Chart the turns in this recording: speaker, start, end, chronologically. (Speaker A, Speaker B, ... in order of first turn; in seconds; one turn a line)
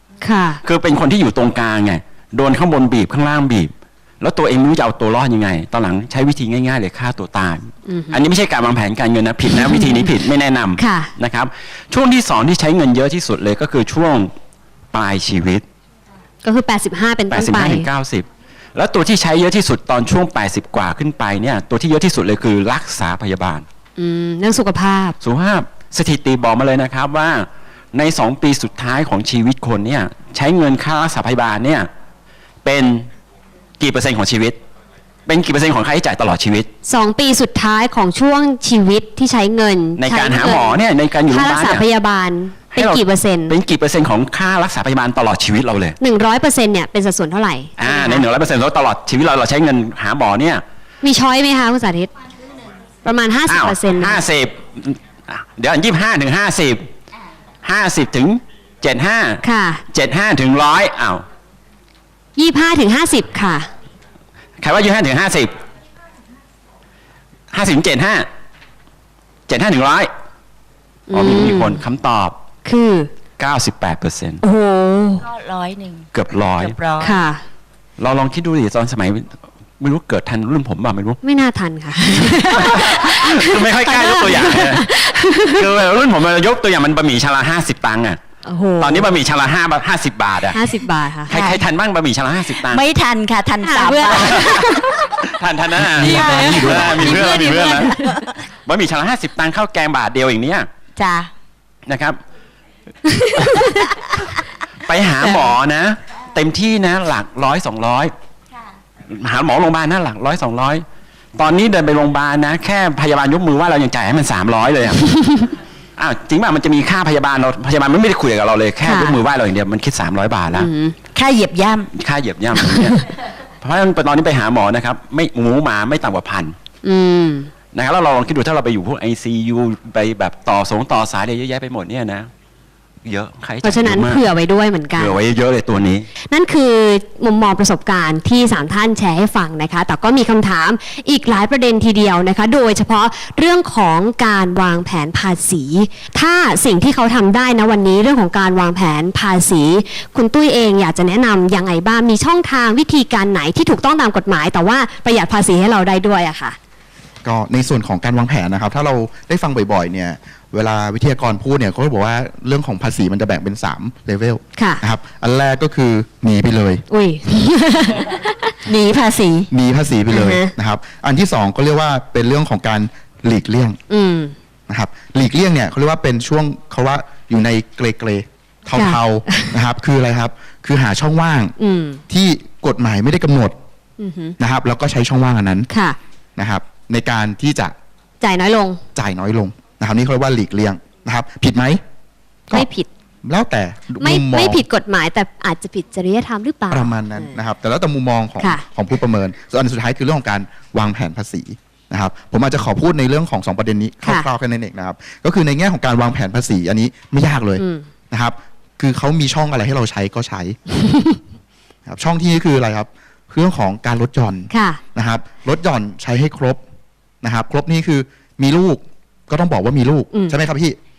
Speaker A: 0.2-0.6
Speaker B: 0.6-14.3
Speaker A: 7.8-8.2
Speaker A: 9.5-10.1
Speaker A: 10.8-11.1
Speaker B: 14.9-15.7
Speaker A: 16.4-17.9
Speaker B: 17.3-23.6
Speaker A: 24.0-25.2
Speaker B: 25.2-31.9
Speaker B: 32.6-33.1
Speaker B: 33.8-34.6
Speaker B: 35.2-36.7
Speaker A: 36.8-43.5
Speaker B: 40.0-41.8
Speaker B: 42.7-46.0
Speaker A: 46.0-48.2
Speaker B: 47.8-50.6
Speaker A: 51.0-52.1
Speaker A: 53.0-54.2
Speaker B: 53.5-56.9
Speaker B: 57.6-61.2
Speaker A: 59.4-59.8
Speaker A: 62.4-63.7
Speaker B: 64.6-65.6
Speaker B: 67.5-68.3
Speaker B: 69.5-70.1
Speaker A: 71.1-71.8
Speaker B: 71.1-72.4
Speaker A: 72.6-73.1
Speaker B: 73.4-74.4
Speaker A: 74.4-75.2
Speaker C: 75.2-77.2
Speaker B: 76.1-76.8
Speaker A: 77.0-77.4
Speaker B: 78.0-81.2
Speaker A: 81.2-85.7
Speaker B: 82.1-84.9
Speaker B: 85.5-88.2
Speaker A: 88.4-89.1
Speaker B: 88.8-90.6
Speaker A: 90.5-91.3
Speaker B: 91.3-92.8
Speaker C: 91.3-91.7
Speaker C: 92.5-94.9
Speaker A: 93.6-95.0
Speaker B: 94.1-94.6
Speaker B: 95.3-98.0
Speaker D: 95.8-97.5
Speaker C: 96.0-98.2
Speaker A: 96.1-98.3
Speaker B: 98.6-100.7
Speaker C: 101.0-101.3
Speaker B: 101.8-102.2
Speaker A: 103.0-103.9
Speaker B: 103.4-103.7
Speaker B: 104.8-108.1
Speaker B: 109.1-110.8
Speaker B: 111.3-115.1
Speaker A: 115.1-115.4
Speaker B: 116.0-120.7
Speaker A: 118.8-119.2
Speaker A: 120.5-121.0
Speaker C: 121.1-121.9
Speaker B: 121.9-123.1
Speaker B: 123.6-126.5
Speaker A: 126.8-127.5
Speaker B: 127.7-132.3
Speaker B: 133.0-134.2
Speaker A: 133.6-135.2
Speaker B: 134.9-136.1
Speaker A: 136.3-156.6
Speaker D: 157.2-166.8
Speaker A: 164.6-164.8
Speaker A: 166.9-168.5
Speaker C: 168.6-169.5
Speaker D: 169.5-173.8
Speaker A: 170.1-170.5
Speaker A: 173.9-174.3
Speaker D: 174.7-181.5
Speaker A: 178.7-179.5
Speaker A: 181.6-182.0
Speaker D: 182.1-183.6
Speaker A: 184.0-184.3
Speaker D: 184.4-185.7
Speaker A: 185.7-186.0
Speaker D: 186.4-187.7
Speaker A: 188.2-188.8
Speaker D: 188.9-191.8
Speaker A: 192.5-192.9
Speaker D: 193.2-194.6
Speaker A: 194.0-197.4
Speaker D: 196.7-210.6
Speaker A: 207.6-207.9
Speaker A: 210.8-211.2
Speaker D: 211.8-216.6
Speaker A: 214.5-214.8
Speaker D: 217.2-220.8
Speaker A: 220.1-220.4